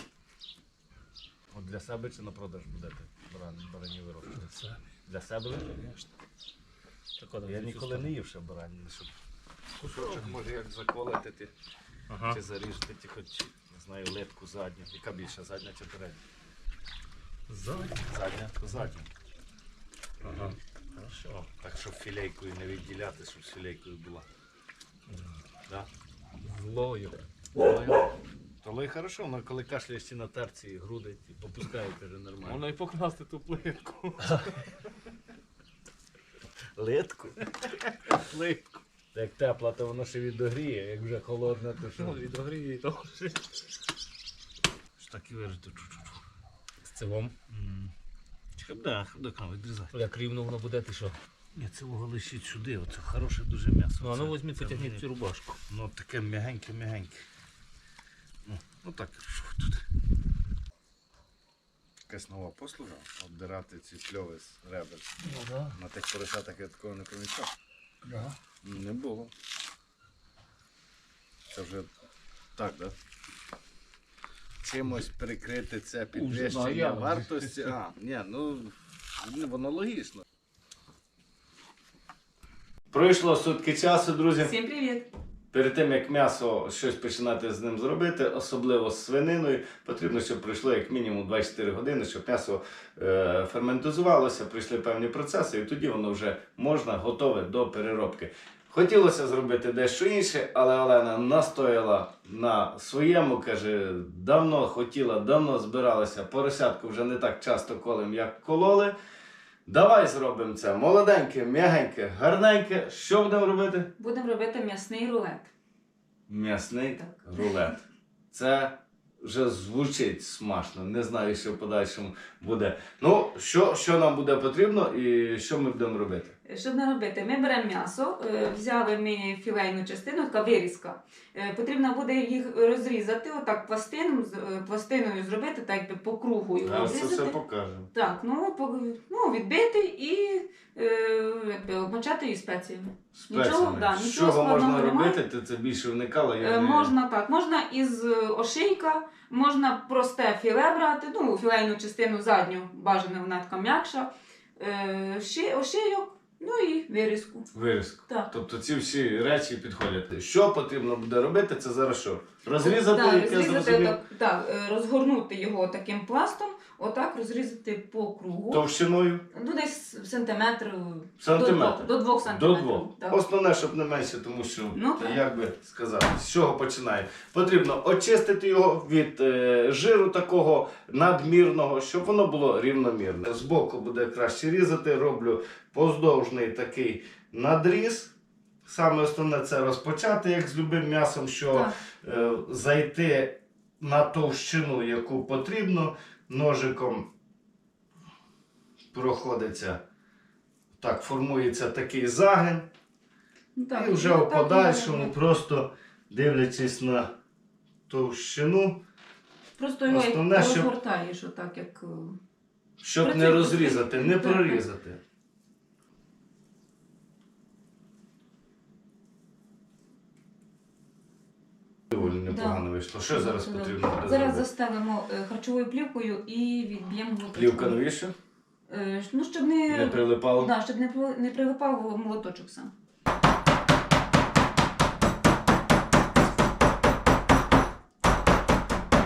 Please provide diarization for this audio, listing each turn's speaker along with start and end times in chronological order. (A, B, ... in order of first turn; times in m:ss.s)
0:01.5-0:04.5 A
0:04.4-0:04.8 B
0:05.1-0:06.1 A
0:07.2-0:08.1 B
0:07.5-0:09.1 A
0:09.8-0:10.3 B
0:09.8-0:11.5 A
0:12.1-0:12.4 B
0:12.3-0:16.2 A
0:17.5-0:18.1 B
0:18.0-0:19.1 A
0:20.2-0:20.5 B
0:21.1-0:24.3 A
0:26.4-0:27.2 B
0:27.6-0:28.0 A
0:28.6-0:32.6 A
0:32.4-0:34.7 B
0:36.8-0:38.2 A
0:39.1-0:42.2 A
0:41.9-0:43.4 B
0:45.0-0:46.2 A
0:46.8-0:47.4 B
0:47.5-0:47.9 A
0:48.6-0:50.0 A
0:49.9-0:51.2 B
0:51.6-0:55.0 A
0:54.0-0:55.6 B
0:55.7-0:57.3 A
0:58.5-0:59.8 A
1:02.1-1:05.1 A
1:05.2-1:05.8 B
1:05.7-1:07.5 A
1:08.0-1:08.4 B
1:08.6-1:09.3 A
1:11.5-1:11.9 A
1:12.6-1:13.0 A
1:14.6-1:20.2 A
1:16.1-1:17.7 B
1:22.9-1:24.5 A
1:24.4-1:25.1 C
1:25.5-1:49.0 A
1:49.7-1:53.9 A
1:54.0-1:55.5 C
1:56.3-1:57.8 A
1:57.0-1:57.6 C
1:58.3-2:06.4 A
2:06.4-2:17.4 C
2:16.6-2:17.9 A
2:17.9-2:25.2 C
2:23.1-2:26.9 A
2:26.4-2:37.5 C
2:37.5-2:44.0 A
2:42.6-2:48.7 C
2:48.5-2:49.2 A
2:49.3-2:53.2 C
2:51.2-3:08.1 A
2:54.7-2:55.2 C
3:08.6-3:17.1 A
3:11.5-3:11.9 C
3:18.9-3:19.8 A
3:20.8-3:22.7 A
3:23.6-3:25.2 C
3:23.8-3:27.1 A
3:27.9-3:28.8 A
3:29.6-3:32.2 C
3:29.9-3:30.7 A
3:32.8-3:35.0 A
3:33.0-3:34.7 C
3:41.9-3:44.5 A
3:42.0-3:47.8 C
3:47.3-3:48.1 A
3:48.7-3:52.7 C
3:49.7-3:50.5 A